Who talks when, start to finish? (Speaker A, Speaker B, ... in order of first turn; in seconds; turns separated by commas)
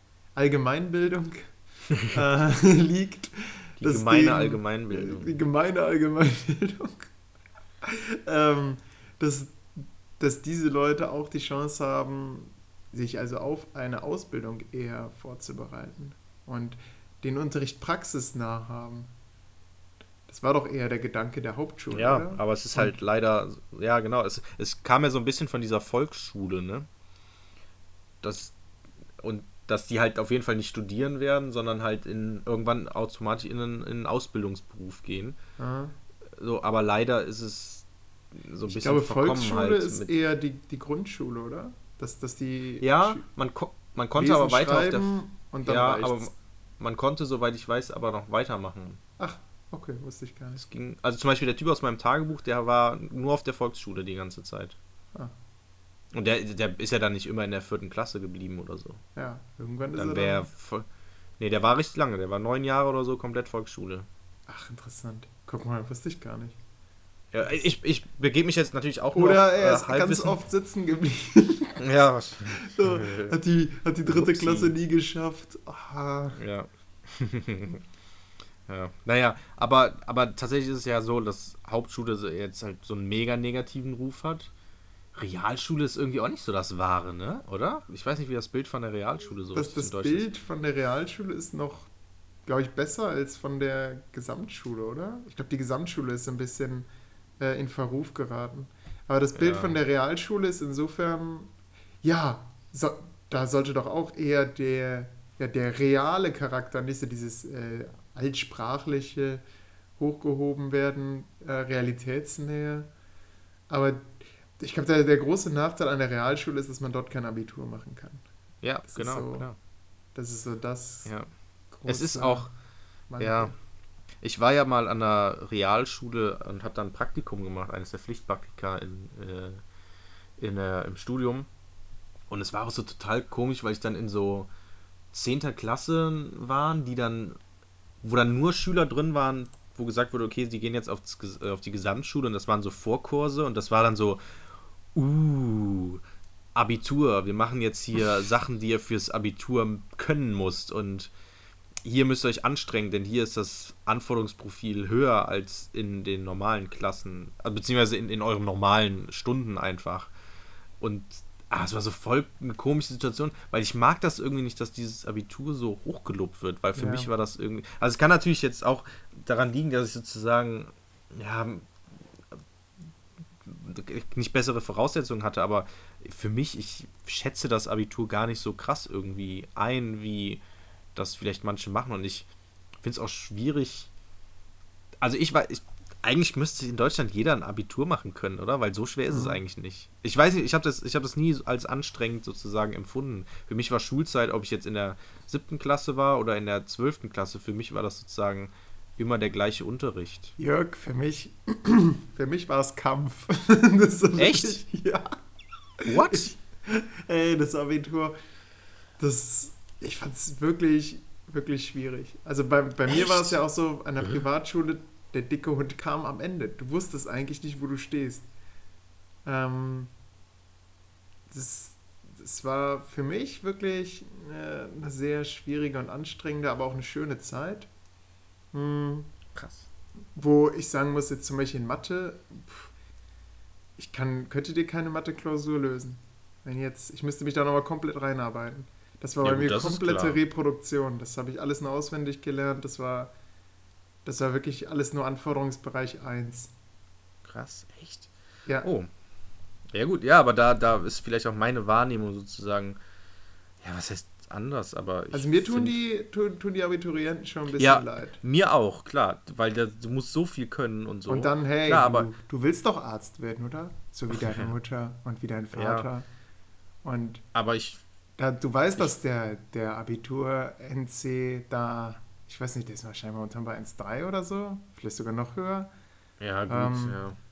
Speaker A: 0.3-7.1, Speaker B: 3.8-5.3, Speaker A: 7.8-19.1, Speaker A: 20.3-22.9, Speaker B: 21.9-26.9, Speaker B: 28.2-28.6, Speaker B: 29.2-35.4, Speaker A: 35.6-35.9, Speaker B: 36.3-40.1, Speaker A: 38.7-43.2, Speaker B: 42.8-49.0, Speaker A: 44.1-46.3, Speaker A: 49.2-50.6, Speaker B: 50.6-54.8, Speaker B: 56.1-59.0, Speaker A: 59.1-60.5, Speaker B: 60.0-60.9, Speaker B: 61.4-64.1, Speaker A: 64.5-66.6, Speaker B: 67.3-70.4, Speaker A: 69.1-71.8, Speaker B: 71.8-73.3, Speaker A: 72.5-76.4, Speaker B: 74.0-74.7, Speaker B: 76.3-77.8, Speaker B: 78.7-84.5, Speaker B: 85.1-90.3, Speaker A: 89.5-91.9, Speaker A: 92.5-96.8, Speaker A: 97.4-101.5, Speaker B: 99.3-99.8, Speaker A: 102.0-109.4, Speaker A: 110.0-112.9, Speaker A: 113.7-118.2, Speaker B: 118.6-119.6, Speaker A: 118.8-119.5, Speaker A: 120.1-121.1, Speaker A: 121.7-122.5, Speaker B: 121.9-122.5, Speaker A: 123.1-123.5, Speaker B: 123.2-123.5, Speaker B: 124.2-129.6, Speaker B: 130.4-131.5, Speaker B: 132.3-134.5, Speaker B: 135.1-137.4, Speaker B: 138.0-144.2, Speaker B: 144.9-146.0, Speaker B: 146.5-151.1, Speaker B: 151.8-160.1, Speaker B: 160.8-171.7, Speaker A: 166.7-167.1, Speaker B: 173.4-180.4, Speaker B: 180.9-182.3, Speaker B: 182.8-183.9, Speaker B: 185.0-200.3, Speaker A: 189.1-189.4, Speaker A: 200.4-205.1, Speaker B: 204.2-204.6, Speaker A: 205.8-208.2, Speaker B: 205.8-206.3, Speaker A: 209.0-218.3, Speaker B: 212.9-213.3, Speaker A: 219.2-219.9, Speaker A: 221.3-227.7, Speaker A: 228.5-229.1, Speaker B: 229.3-229.7, Speaker A: 230.2-232.7, Speaker A: 233.8-243.1, Speaker B: 239.2-240.2, Speaker A: 244.0-246.5, Speaker B: 247.2-248.1, Speaker B: 248.6-248.9, Speaker B: 249.7-252.8, Speaker B: 253.6-255.8, Speaker A: 255.1-258.2, Speaker B: 257.6-262.1, Speaker A: 261.1-266.1, Speaker B: 264.1-264.5, Speaker B: 265.5-265.9, Speaker A: 266.8-267.2, Speaker B: 267.3-267.8, Speaker A: 268.2-275.7, Speaker B: 276.2-277.2, Speaker A: 276.5-277.0